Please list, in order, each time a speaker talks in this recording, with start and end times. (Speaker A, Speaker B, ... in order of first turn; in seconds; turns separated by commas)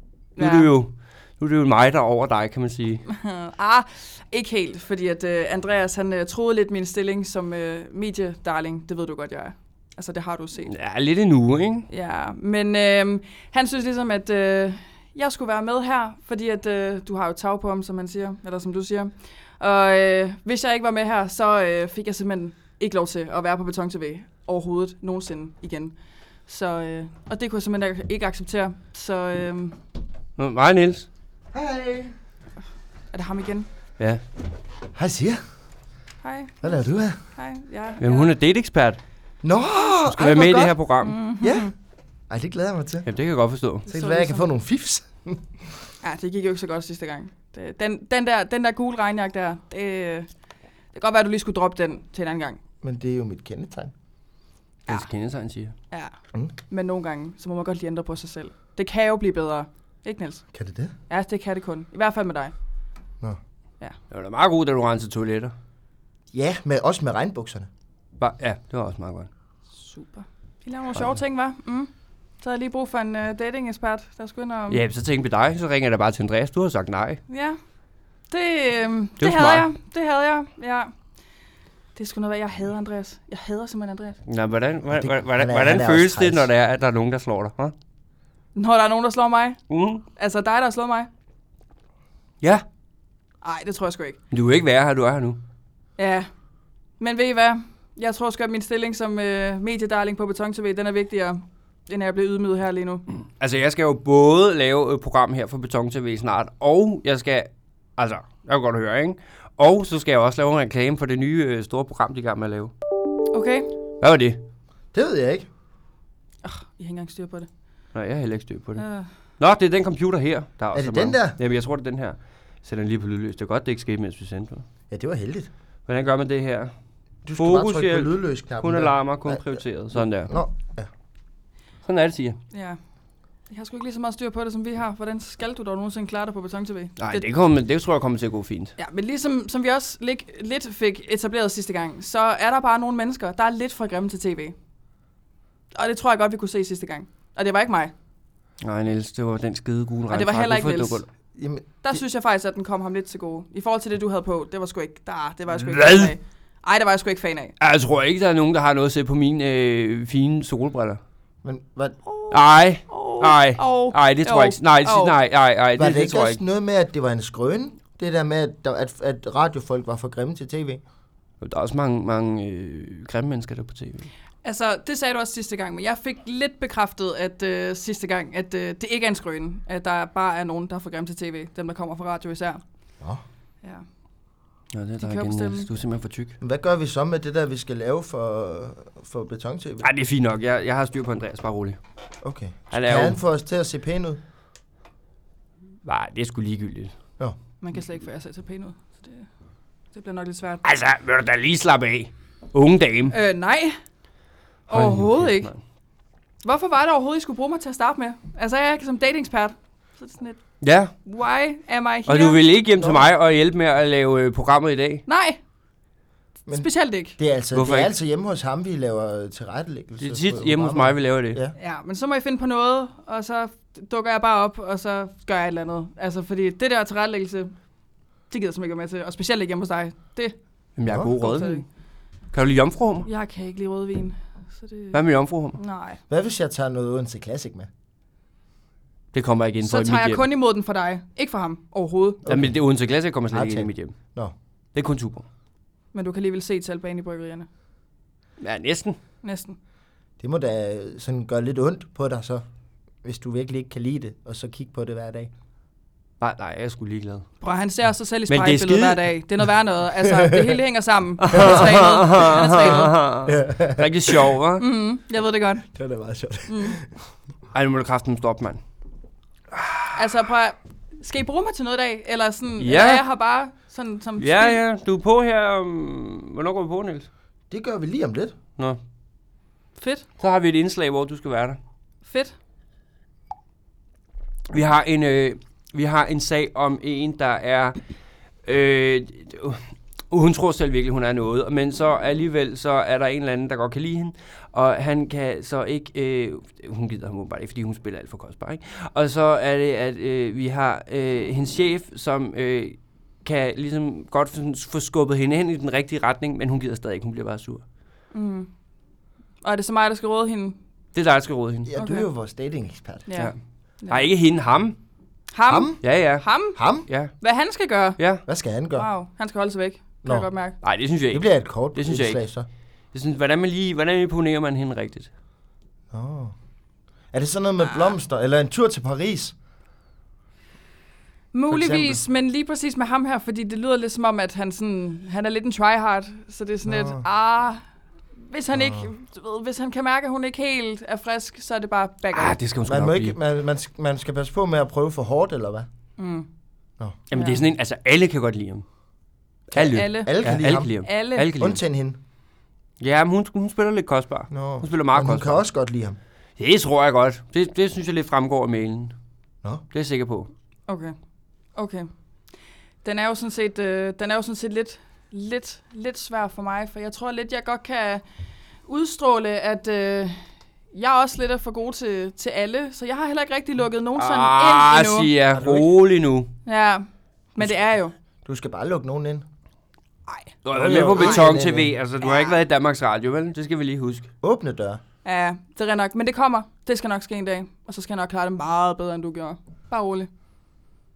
Speaker A: 0.3-3.0, Speaker B: 0.4-0.7, Speaker B: 3.1-10.7, Speaker A: 10.7-11.9, Speaker B: 11.9-25.9, Speaker B: 26.5-29.8, Speaker A: 30.4-31.1, Speaker C: 31.5-32.1, Speaker B: 33.1-33.7, Speaker C: 35.0-35.4, Speaker B: 36.2-38.3, Speaker C: 36.6-37.2, Speaker A: 38.0-39.0, Speaker C: 39.4-40.8, Speaker A: 40.1-41.2, Speaker B: 41.0-41.7, Speaker C: 41.4-41.7, Speaker C: 42.3-43.1, Speaker A: 43.0-43.9, Speaker B: 43.9-44.5, Speaker C: 43.9-45.4, Speaker B: 46.0-50.3, Speaker B: 50.9-52.6, Speaker C: 52.8-53.9, Speaker A: 54.9-55.7, Speaker B: 56.7-60.4, Speaker C: 60.5-60.9, Speaker B: 61.1-62.5, Speaker A: 64.1-65.5, Speaker C: 66.3-67.7, Speaker A: 68.2-69.3, Speaker B: 69.8-74.8, Speaker A: 74.7-77.2, Speaker B: 77.3-77.6, Speaker B: 78.3-80.9, Speaker A: 79.2-79.7, Speaker B: 81.9-84.2, Speaker A: 84.3-87.7, Speaker C: 84.9-86.5, Speaker B: 88.5-89.6, Speaker A: 89.7-90.0, Speaker B: 90.2-91.1, Speaker B: 93.4-94.2, Speaker A: 94.3-95.4, Speaker B: 96.0-96.3, Speaker B: 97.0-103.0, Speaker A: 103.4-112.7, Speaker B: 113.3-113.7, Speaker A: 114.0-114.4, Speaker C: 114.9-115.5, Speaker B: 116.4-117.5, Speaker A: 117.9-118.8, Speaker B: 118.8-119.1, Speaker A: 119.4-124.6, Speaker C: 120.7-121.4, Speaker C: 124.9-125.5, Speaker A: 125.9-126.7, Speaker C: 127.2-130.9, Speaker A: 127.4-130.3, Speaker A: 131.8-132.4, Speaker B: 132.5-132.8, Speaker B: 133.5-137.2, Speaker A: 137.0-138.7, Speaker B: 138.8-144.6, Speaker B: 145.7-147.9, Speaker A: 148.6-151.1, Speaker B: 150.1-151.0, Speaker C: 151.4-152.0, Speaker B: 151.8-157.5, Speaker A: 155.5-156.1, Speaker A: 157.6-161.0, Speaker C: 161.4-162.0, Speaker B: 162.1-165.1, Speaker A: 162.3-166.4, Speaker C: 165.8-170.8, Speaker A: 171.4-174.1, Speaker B: 174.4-182.6, Speaker A: 184.7-186.3, Speaker B: 185.0-185.7, Speaker C: 186.4-189.9, Speaker A: 189.8-191.8, Speaker C: 192.2-194.2, Speaker A: 192.7-193.2, Speaker A: 195.8-196.9, Speaker B: 197.6-199.3, Speaker B: 199.9-200.6, Speaker A: 200.6-203.1, Speaker B: 203.1-203.8, Speaker A: 204.7-205.6, Speaker B: 204.7-205.5, Speaker B: 206.4-210.4, Speaker A: 210.6-210.9, Speaker B: 211.0-212.4, Speaker A: 212.1-215.0, Speaker C: 212.8-213.1, Speaker B: 215.1-215.4, Speaker B: 216.5-217.2, Speaker C: 217.2-221.5, Speaker A: 217.5-217.9, Speaker A: 220.0-221.4, Speaker B: 221.6-227.5, Speaker B: 228.3-230.3, Speaker A: 230.8-231.6, Speaker C: 230.9-231.1, Speaker B: 231.1-231.6, Speaker A: 232.3-233.1, Speaker B: 233.0-235.0, Speaker A: 234.9-235.6, Speaker B: 235.6-236.0, Speaker C: 236.1-237.7, Speaker A: 239.1-240.2, Speaker B: 239.6-242.2, Speaker C: 242.2-242.5, Speaker A: 242.3-243.9, Speaker C: 243.3-244.3, Speaker A: 244.7-245.2, Speaker B: 245.9-247.5, Speaker A: 248.4-249.0, Speaker B: 249.2-249.6, Speaker C: 250.2-252.4, Speaker C: 253.0-255.3, Speaker A: 256.2-257.2, Speaker B: 257.4-262.9, Speaker A: 258.3-259.1, Speaker C: 260.0-260.5, Speaker A: 261.2-264.6, Speaker C: 261.3-262.0, Speaker C: 262.6-264.3, Speaker B: 264.6-265.6, Speaker C: 265.7-266.9, Speaker B: 266.5-266.8, Speaker A: 267.5-268.6, Speaker B: 269.9-274.6, Speaker A: 272.6-273.0, Speaker A: 274.2-277.1, Speaker C: 277.5-278.4, Speaker B: 279.8-280.1, Speaker A: 280.2-281.6, Speaker B: 282.0-282.3, Speaker A: 284.5-287.8, Speaker A: 288.4-307.6, Speaker B: 308.1-308.5, Speaker B: 309.4-310.6, Speaker A: 310.9-311.7, Speaker C: 311.7-313.1, Speaker B: 311.8-312.1, Speaker B: 313.1-314.1, Speaker A: 313.9-314.8, Speaker B: 315.3-316.6, Speaker C: 315.5-315.8, Speaker A: 315.8-316.2, Speaker C: 316.6-316.9, Speaker B: 317.2-318.0, Speaker A: 318.0-318.2, Speaker C: 318.2-318.9, Speaker B: 318.7-320.6, Speaker A: 320.6-322.2, Speaker C: 321.1-322.5, Speaker A: 322.9-325.1, Speaker C: 325.9-326.3, Speaker C: 327.1-329.3, Speaker B: 331.3-337.6, Speaker C: 331.5-332.0, Speaker C: 336.6-337.0, Speaker B: 338.2-342.4, Speaker C: 338.5-338.9, Speaker A: 342.1-343.1, Speaker C: 342.6-345.7, Speaker B: 346.0-346.3, Speaker A: 347.1-348.6, Speaker B: 347.1-347.4, Speaker A: 349.5-351.6, Speaker C: 349.6-350.7, Speaker B: 349.6-351.4, Speaker C: 351.4-352.0, Speaker A: 352.8-355.4, Speaker C: 354.3-356.0, Speaker A: 356.4-358.9, Speaker A: 359.7-360.3, Speaker B: 360.7-360.9, Speaker B: 361.5-361.9, Speaker B: 362.8-368.0, Speaker B: 368.7-370.2, Speaker B: 370.7-375.1, Speaker A: 373.9-376.3, Speaker C: 375.3-375.7, Speaker B: 376.4-377.9, Speaker C: 378.2-379.2, Speaker A: 380.4-384.1, Speaker C: 380.5-381.7, Speaker C: 384.2-384.8, Speaker B: 385.0-390.1